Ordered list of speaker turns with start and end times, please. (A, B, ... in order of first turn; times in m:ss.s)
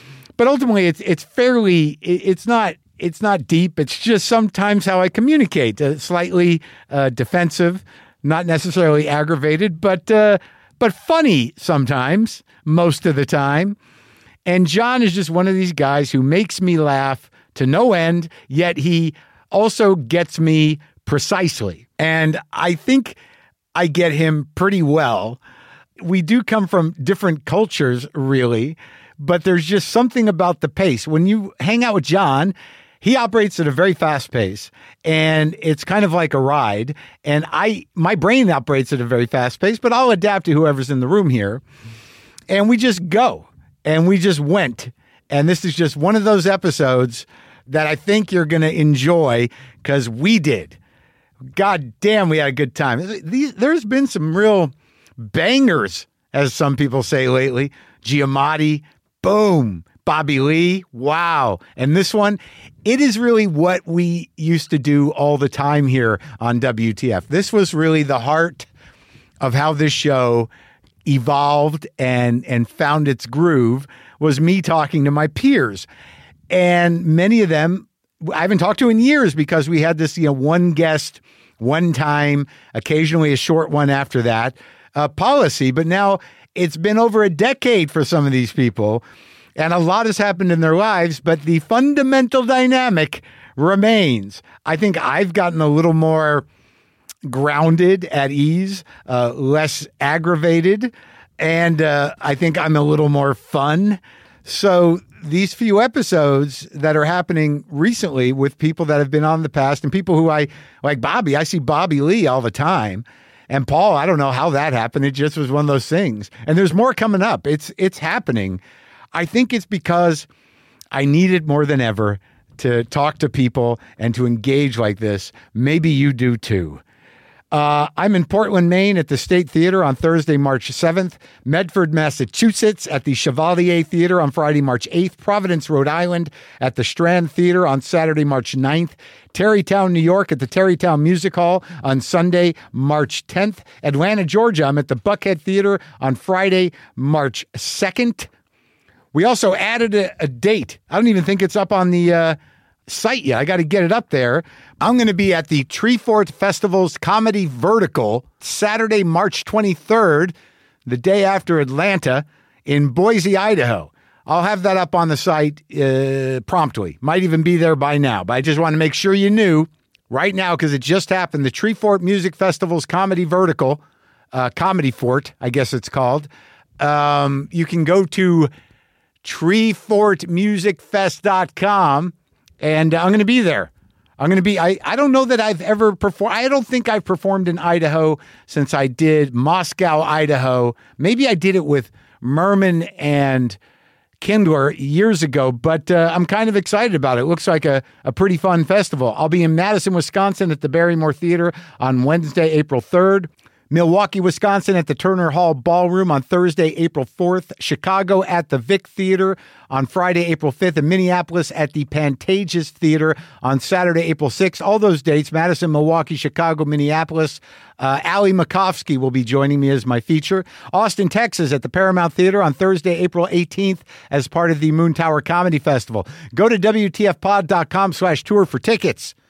0:00.4-0:13.8 A
0:14.4-0:23.2 A
0:23.7-0:25.4 A
0:26.0-0:41.6 A
0:42.5-0:50.8 A
0:51.5-1:08.7 A
1:09.4-1:10.5 A
1:11.0-1:15.8 A
1:16.5-1:29.0 A
1:29.6-1:36.4 A
1:37.2-1:58.6 A
1:59.1-2:00.3 A
2:00.9-2:06.8 A
2:07.5-2:28.3 A
2:29.1-2:40.3 A
2:40.8-2:53.8 A
2:54.3-2:56.3 A
2:56.8-2:58.5 A
2:59.2-3:13.6 A
3:14.2-3:49.1 A